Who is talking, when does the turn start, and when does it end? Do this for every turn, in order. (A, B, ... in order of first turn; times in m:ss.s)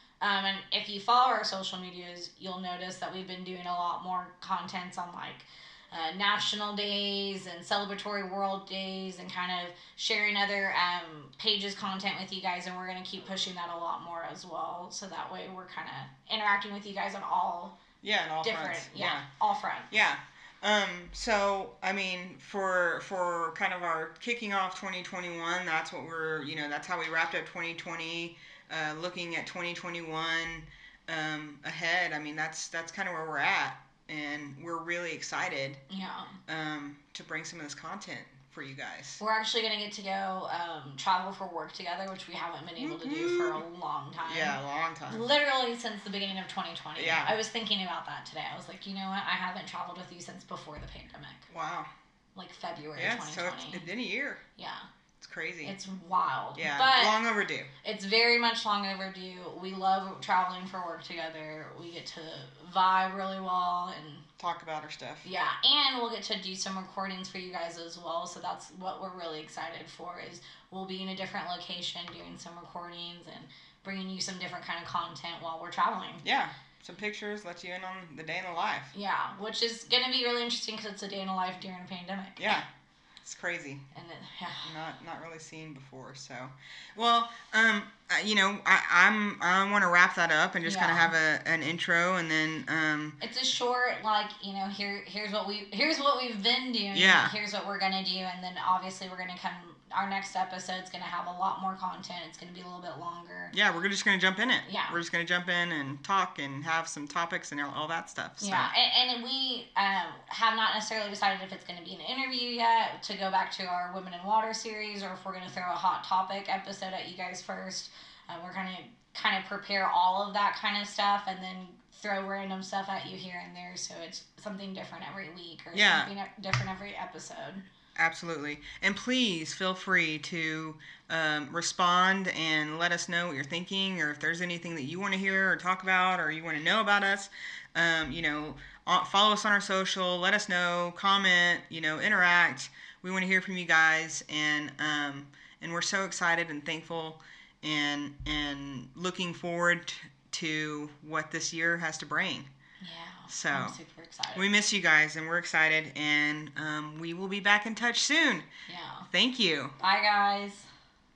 0:00.2-0:17.8 A
0:18.0-0:19.2 B
0:18.4-0:19.9 A
0:19.9-0:35.8 B
0:35.9-0:36.4 A
0:36.5-0:39.2 B
0:39.2-0:51.5 A
0:42.8-0:43.6 B
0:44.2-0:45.3 B
0:47.0-0:47.4 B
0:51.5-0:51.9 B
0:52.3-0:53.9 A
0:53.0-0:54.4 B
0:54.6-0:54.8 A
0:55.2-0:55.8 B
0:55.6-0:57.2 A
0:56.6-0:57.7 B
0:57.8-1:04.2 A
1:04.4-1:05.2 B
1:05.2-1:16.2 A
1:16.2-1:18.9 B
1:18.9-1:22.6 A
1:22.4-1:22.6 B
1:23.2-1:23.8 B
1:23.9-1:24.7 A
1:24.6-1:33.2 B
1:30.6-1:31.1 A
1:33.2-1:43.5 A
1:36.9-1:37.3 B
1:43.5-1:48.7 B
1:44.6-1:45.0 A
1:48.4-2:07.6 A
2:05.7-2:06.1 B
2:08.0-2:32.5 B
2:32.8-2:34.5 A
2:33.3-2:33.8 B
2:34.3-2:38.4 B
2:38.7-2:39.1 A
2:39.1-2:39.7 B
2:39.8-2:40.7 A